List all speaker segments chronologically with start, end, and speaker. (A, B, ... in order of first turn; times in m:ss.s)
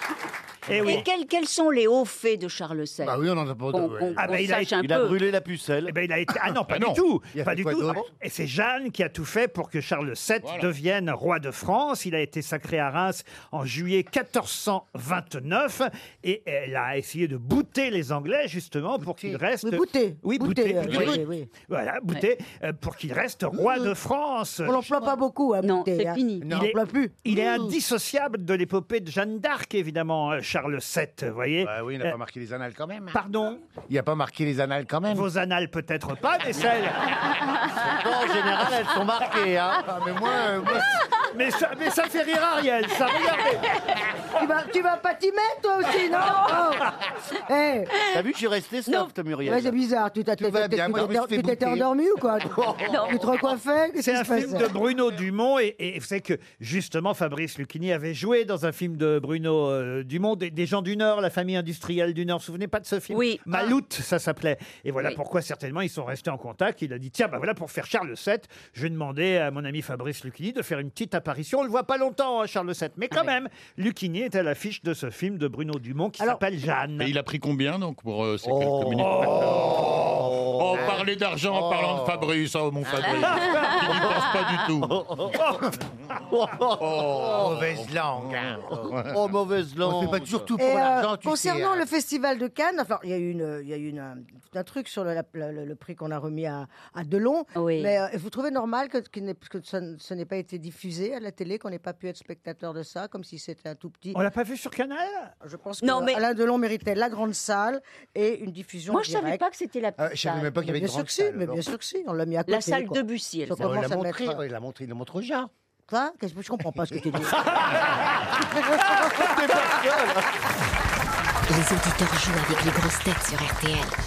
0:00.7-0:01.0 A
0:00.8-0:05.2 B
0:03.0-0:04.2 C
0:04.2-0:04.7 A
0:04.8-0:05.9 D
0:05.9-0:25.1 A
0:06.7-0:07.0 E
0:07.4-0:08.0 C
0:10.4-0:10.7 E
0:19.0-0:19.4 C
0:19.6-0:21.5 F
0:20.8-0:21.2 C
0:23.6-0:23.9 C
0:24.6-0:27.2 F
0:25.6-0:26.5 B
0:26.4-0:27.8 C
0:26.5-0:32.2 A
0:31.6-0:33.2 C
0:33.1-0:33.6 A
0:33.9-0:35.3 C
0:35.1-0:37.1 A
0:37.8-0:39.8 D
0:39.8-0:41.0 C
0:41.3-0:43.6 A
0:44.4-0:46.9 F
0:47.5-0:48.1 F
0:48.0-0:49.7 D
0:49.4-0:54.7 F
0:50.4-0:51.9 C
0:52.6-0:52.9 D
0:52.9-0:53.2 B
0:54.0-1:17.1 A
1:03.1-1:03.7 B
1:17.0-1:25.0 E
1:18.4-1:21.0 D
1:19.0-1:19.8 A
1:19.5-1:20.1 C
1:20.7-1:22.3 C
1:23.3-1:23.8 A
1:24.8-1:25.5 D
1:25.3-1:25.6 A
1:26.3-1:27.5 D
1:27.0-1:29.2 C
1:28.9-1:30.5 D
1:29.8-1:31.8 C
1:30.6-1:44.2 F
1:37.6-1:37.9 B
1:44.1-1:45.3 A
1:45.4-1:49.4 F
1:45.8-1:46.2 B
1:48.9-1:50.7 B
1:50.0-1:51.6 C
1:50.6-1:54.4 F
1:52.5-1:53.8 B
1:53.6-1:55.5 C
1:55.9-1:57.5 F
1:56.8-1:57.3 C
1:58.6-1:59.0 F
1:59.1-2:00.4 D
2:01.5-2:04.0 G